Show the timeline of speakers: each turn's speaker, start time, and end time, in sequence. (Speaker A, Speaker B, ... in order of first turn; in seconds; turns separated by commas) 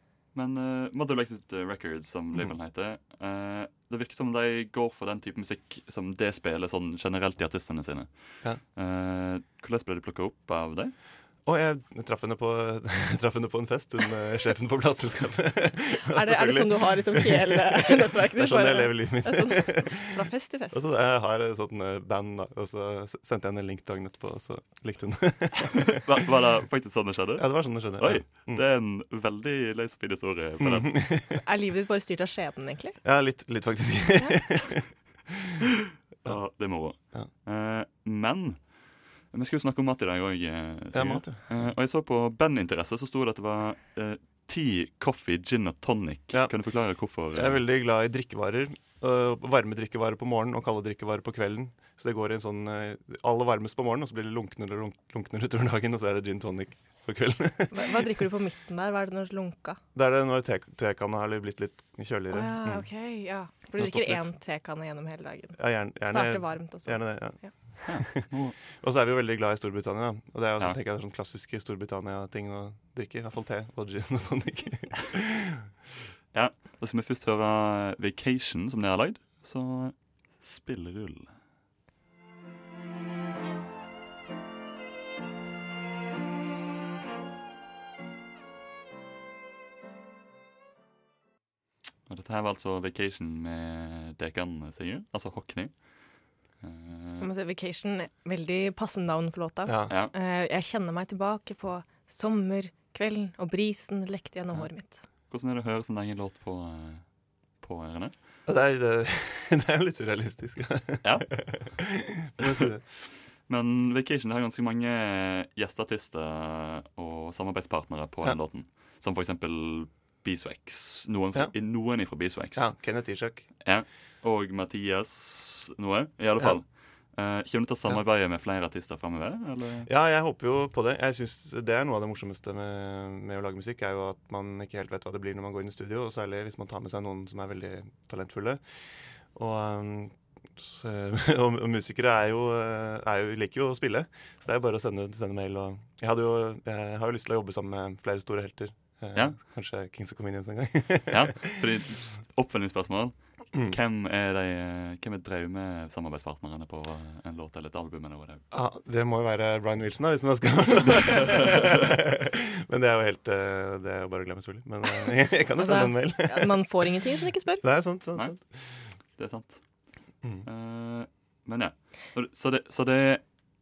Speaker A: 0.3-8.1, Speaker A: 8.7-10.9, Speaker B: 11.4-20.1, Speaker C: 16.1-20.9, Speaker B: 20.7-26.0, Speaker A: 25.9-31.1, Speaker B: 27.4-28.6, Speaker B: 30.6-31.4, Speaker C: 31.4-33.0, Speaker B: 33.0-34.9, Speaker C: 34.2-34.6, Speaker A: 36.2-38.7, Speaker A: 39.3-47.6, Speaker B: 40.9-41.7, Speaker B: 47.3-58.0, Speaker C: 57.7-59.8, Speaker B: 60.0-62.9, Speaker C: 62.3-67.5, Speaker B: 63.8-64.3, Speaker B: 65.6-75.6, Speaker A: 67.9-68.6, Speaker A: 76.3-81.4, Speaker A: 92.1-95.9, Speaker A: 96.6-97.3, Speaker C: 97.2-105.0, Speaker B: 99.7-100.0, Speaker A: 105.3-107.1, Speaker A: 107.6-108.2, Speaker B: 108.5-112.8, Speaker A: 111.0-111.8, Speaker A: 112.4-123.0, Speaker B: 121.3-123.5, Speaker A: 123.6-129.9, Speaker B: 129.8-138.6, Speaker B: 139.3-151.5, Speaker A: 151.1-158.4, Speaker B: 158.5-166.7, Speaker C: 165.6-167.6, Speaker B: 167.6-168.7, Speaker A: 169.2-169.6, Speaker A: 170.4-173.2